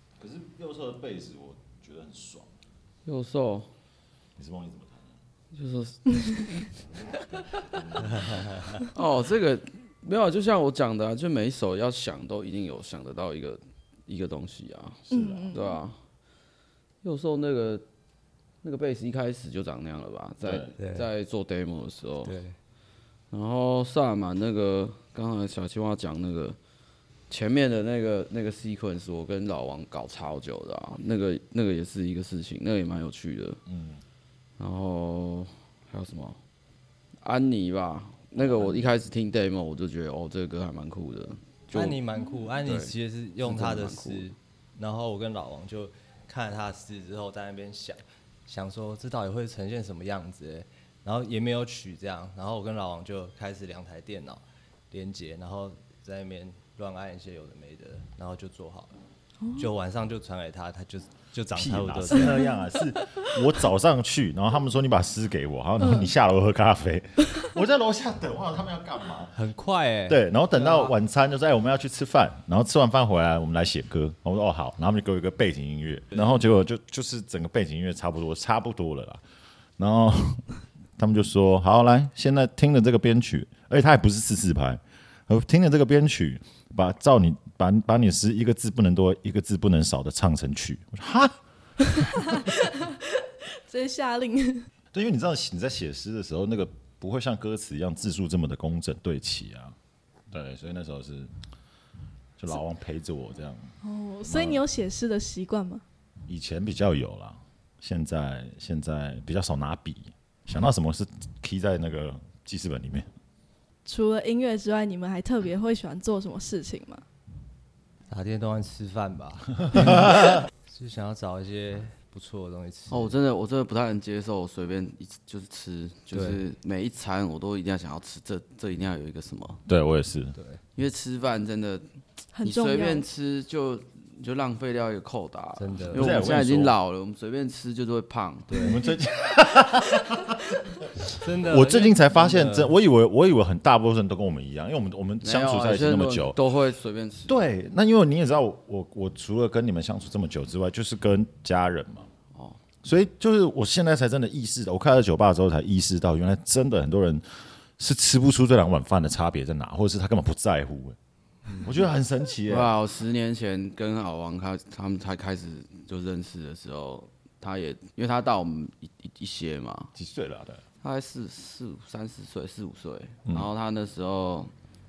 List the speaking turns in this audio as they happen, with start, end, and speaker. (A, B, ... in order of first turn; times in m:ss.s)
0:00.2-0:02.5 A
0:03.0-0:03.7 B
0:04.4-0:05.1 A
0:05.5-0:06.7 B
0:06.9-0:08.6 A
0:08.0-0:08.8 C
0:08.9-0:16.0 B
0:15.1-0:15.6 A
0:15.1-0:15.8 D
0:17.0-0:17.9 B
0:18.6-0:22.4 B
0:20.4-0:20.7 A
0:20.8-0:21.1 C
0:22.2-0:22.6 C
0:23.3-0:26.6 B
0:27.3-0:33.6 B
0:33.7-0:34.0 A
0:34.6-0:36.4 B
0:37.2-0:42.0 B
0:41.7-0:59.0 C
0:42.6-0:44.3 B
0:59.4-0:59.7 D
0:59.6-1:02.4 C
1:01.5-1:09.3 A
1:09.4-1:10.9 C
1:10.1-1:19.2 A
1:19.8-1:31.4 A
1:32.0-1:34.7 D
1:34.9-1:39.8 A
1:40.3-1:41.3 A
1:42.4-1:44.6 A
1:43.8-1:45.8 D
1:46.3-1:53.1 A
1:53.9-1:57.0 D
1:58.1-2:03.2 C
1:59.7-2:00.3 A
2:02.9-2:09.6 B
2:06.1-2:06.4 C
2:09.7-2:10.4 A
2:10.4-2:10.6 C
2:10.8-2:11.9 B
2:12.3-2:13.0 D
2:12.4-2:18.7 B
2:15.6-2:16.4 C
2:15.9-2:16.8 A
2:18.5-2:18.8 C
2:18.6-2:26.4 A
2:21.2-2:22.8 C
2:25.2-2:27.4 B
2:27.3-2:32.1 A
2:32.3-2:32.6 B
2:32.8-2:41.0 A
2:41.6-2:42.7 A
2:42.5-2:49.9 B
2:50.0-2:50.6 A
2:50.8-2:54.5 B